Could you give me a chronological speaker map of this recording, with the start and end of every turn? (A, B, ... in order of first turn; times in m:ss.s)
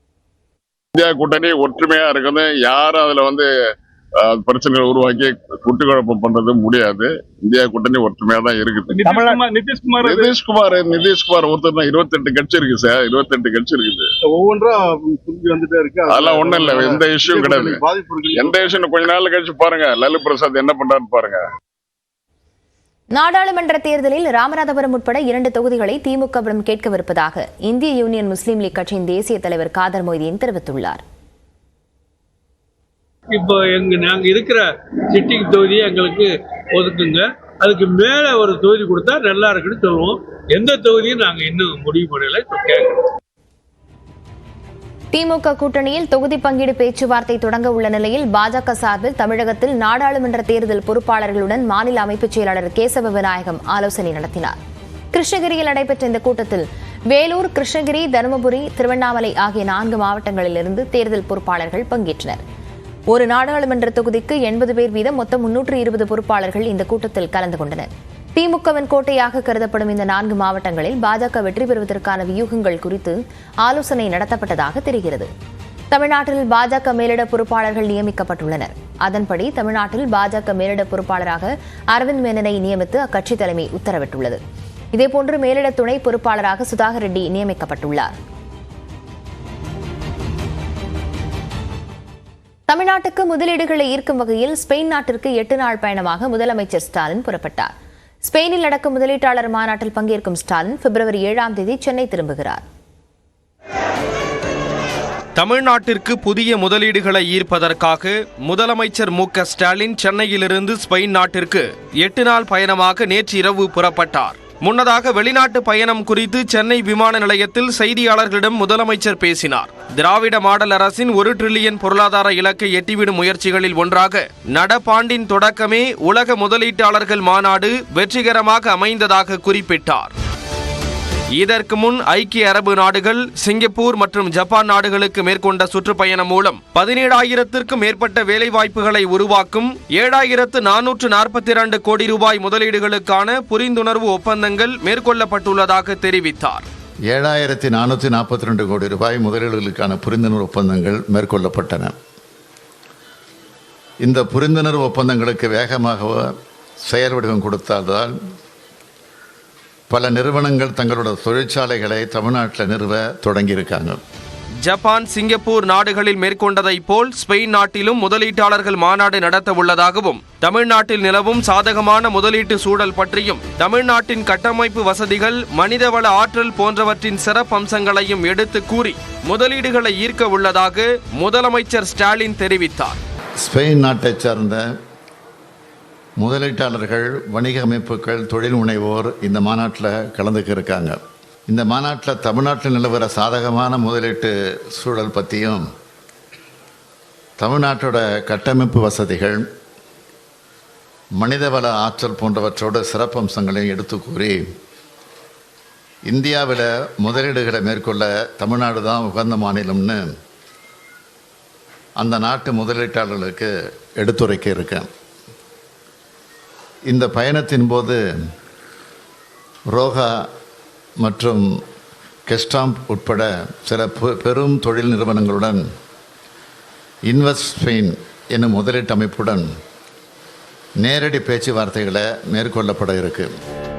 0:00.9-0:03.5 A
0:04.2-0:09.2 A
0:09.0-0:10.3 B
0:10.0-0:14.1 A
0:14.2-0:18.8 C
0:16.1-0:17.8 A
0:18.3-0:21.4 A
0:23.1-0:31.0 D
0:33.3-0:43.0 B
0:45.1-0:54.6 D
0:55.1-1:02.4 D
1:03.1-1:15.3 D
1:15.9-1:24.4 D
1:24.9-1:28.1 D
1:32.7-1:37.7 D
1:38.2-1:42.6 D
1:45.4-2:10.1 E
2:11.3-2:26.7 E
2:27.1-2:31.9 F
2:34.0-2:36.3 F
2:36.8-2:38.1 F
2:39.9-2:44.0 F
2:44.6-3:03.0 E
3:03.4-3:04.6 F
3:06.2-3:15.6 F
3:17.4-3:19.4 F
3:21.2-3:24.4 F
3:26.1-3:30.0 F
3:32.0-3:34.9 F
3:36.9-3:38.0 F
3:39.7-3:40.2 F
3:41.0-3:41.4 F
3:42.3-3:45.6 F
3:47.1-3:49.5 F
3:50.8-3:53.3 F